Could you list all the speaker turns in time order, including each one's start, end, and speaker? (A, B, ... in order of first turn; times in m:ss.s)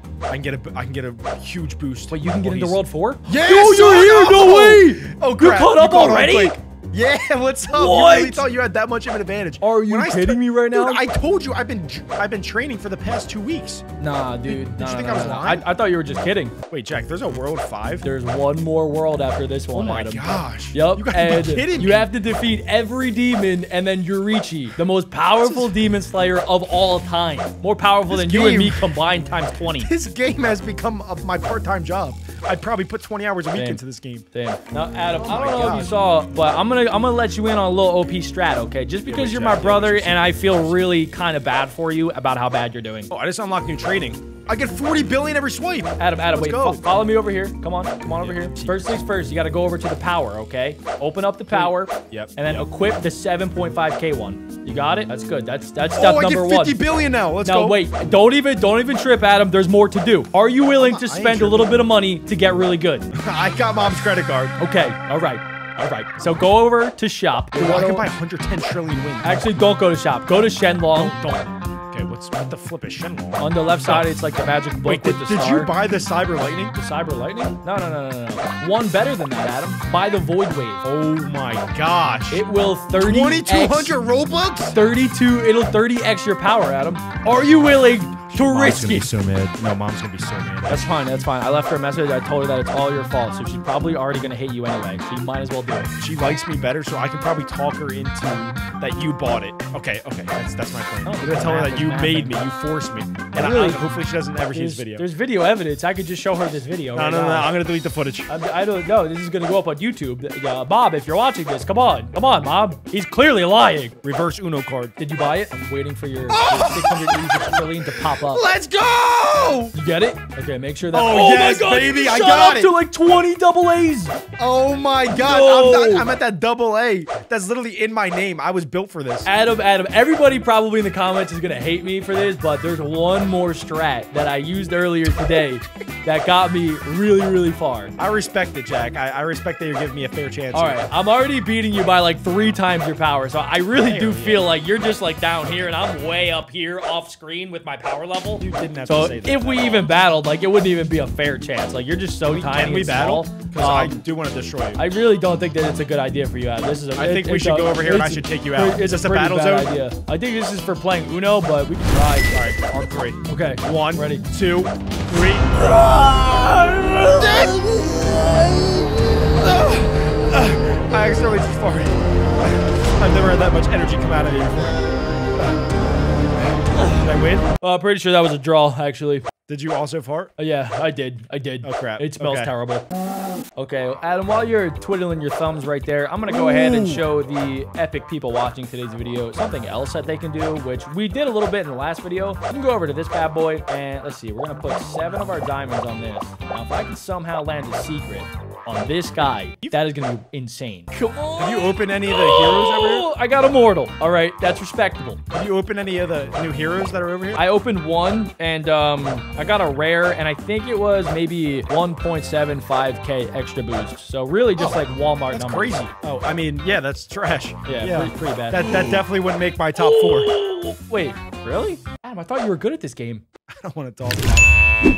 0:00.3-0:13.8 A
0:02.1-0:06.6 B
0:07.7-0:08.4 B
0:09.6-0:11.0 B
0:14.0-0:16.6 B
0:14.5-0:15.7 A
0:16.7-0:18.0 A
0:18.0-0:29.9 B
0:19.7-0:22.1 A
0:25.4-0:25.8 A
0:28.1-0:29.0 A
0:29.8-0:34.3 A
0:33.6-0:33.8 B
0:34.3-0:43.1 B
0:35.1-0:35.9 A
0:39.0-0:40.8 A
0:43.1-0:46.8 A
0:46.0-0:56.8 B
0:48.2-0:48.9 A
0:51.5-0:52.6 A
0:56.0-0:57.8 A
0:57.4-1:03.1 B
1:00.8-1:01.8 A
1:03.1-1:04.6 A
1:04.6-1:08.1 B
1:07.6-1:09.4 A
1:09.2-1:11.2 B
1:10.9-1:14.1 A
1:13.4-1:15.7 B
1:14.8-1:16.7 A
1:16.7-1:20.9 B
1:20.8-1:22.4 A
1:22.3-1:23.9 B
1:23.0-1:24.8 A
1:24.7-1:29.1 B
1:27.3-1:30.9 A
1:30.7-1:35.9 B
1:36.0-1:45.1 A
1:41.0-1:42.4 B
1:43.3-1:43.9 B
1:44.5-1:47.5 B
1:46.9-1:48.3 A
1:48.3-1:54.0 B
1:54.0-1:54.9 A
1:55.0-1:58.5 B
1:56.3-1:59.8 A
1:59.7-2:04.2 B
2:00.9-2:02.8 A
2:04.4-2:09.3 A
2:05.1-2:06.1 B
2:09.2-2:18.0 B
2:18.0-2:20.8 A
2:20.5-2:34.0 B
2:23.8-2:24.5 A
2:28.4-2:29.9 A
2:32.3-2:34.8 A
2:34.8-2:42.3 B
2:37.0-2:39.7 A
2:42.3-2:45.7 A
2:43.3-2:44.2 B
2:45.5-2:49.6 B
2:47.2-2:47.9 A
2:49.3-2:54.8 A
2:56.7-2:57.0 B
2:56.8-2:57.5 A
2:57.6-2:59.3 B
2:59.5-3:00.3 A
3:00.4-3:02.9 B
3:01.6-3:02.5 A
3:03.6-3:25.2 B
3:06.3-3:07.0 A
3:21.4-3:23.1 A
3:25.3-3:27.5 A
3:27.4-3:35.9 B
3:34.6-3:40.3 A
3:37.7-3:39.0 B
3:39.8-3:43.2 B
3:43.5-3:44.5 A